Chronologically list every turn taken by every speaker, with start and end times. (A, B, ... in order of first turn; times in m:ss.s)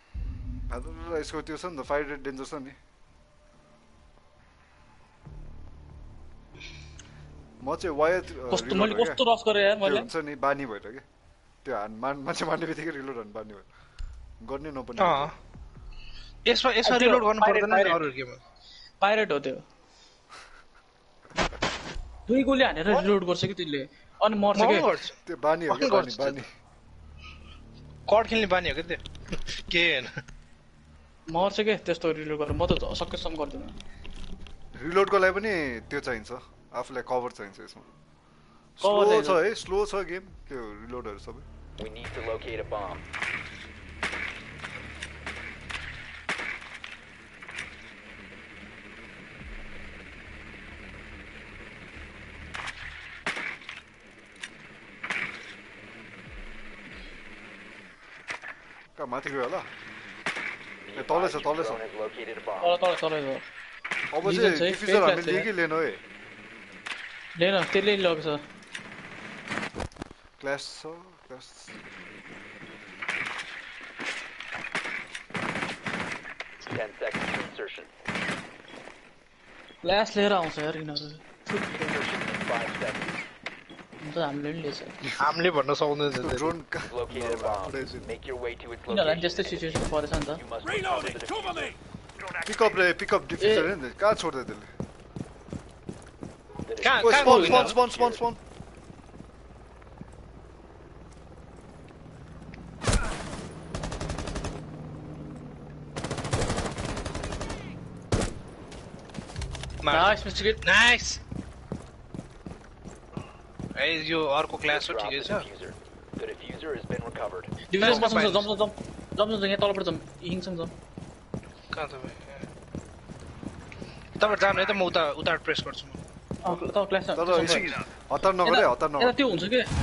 0:00.7-0:02.8 A
0:07.6-0:09.2 A
0:08.5-0:10.1 B
0:09.8-0:11.0 A
0:11.6-0:13.7 A
0:14.4-0:15.3 A
0:15.0-0:15.3 C
0:16.4-0:18.4 C
0:16.8-0:18.0 B
0:19.0-0:19.6 B
0:22.3-0:24.9 B
0:24.5-0:25.2 C
0:25.2-0:26.5 A
0:25.7-0:26.4 C
0:28.1-0:30.2 C
0:31.3-0:33.8 B
0:34.7-0:37.9 A
0:38.8-0:41.4 A
0:38.8-0:39.4 B
0:41.8-0:43.0 D
0:59.0-0:59.7 A
1:00.9-1:02.8 D
1:01.0-1:01.8 A
1:02.6-1:03.4 B
1:04.1-1:06.0 A
1:04.2-1:05.5 B
1:07.4-1:08.4 B
1:10.4-1:11.8 A
1:16.7-1:17.9 D
1:19.8-1:22.0 B
1:21.7-1:23.2 D
1:24.0-1:25.1 B
1:25.2-1:26.5 C
1:26.2-1:28.1 A
1:26.8-1:31.8 D
1:28.9-1:30.4 B
1:32.4-1:34.7 A
1:33.4-1:33.7 B
1:36.6-1:38.2 D
1:36.8-1:37.7 C
1:37.0-1:38.4 A
1:37.2-1:37.7 B
1:49.8-1:51.2 C
1:49.9-1:50.6 B
1:53.7-1:55.5 C
1:54.7-1:58.0 D
1:57.7-2:00.7 B
1:57.8-1:58.5 C
2:01.7-2:02.5 C
2:04.2-2:06.0 C
2:06.4-2:07.8 B
2:07.1-2:09.2 A
2:08.4-2:09.7 B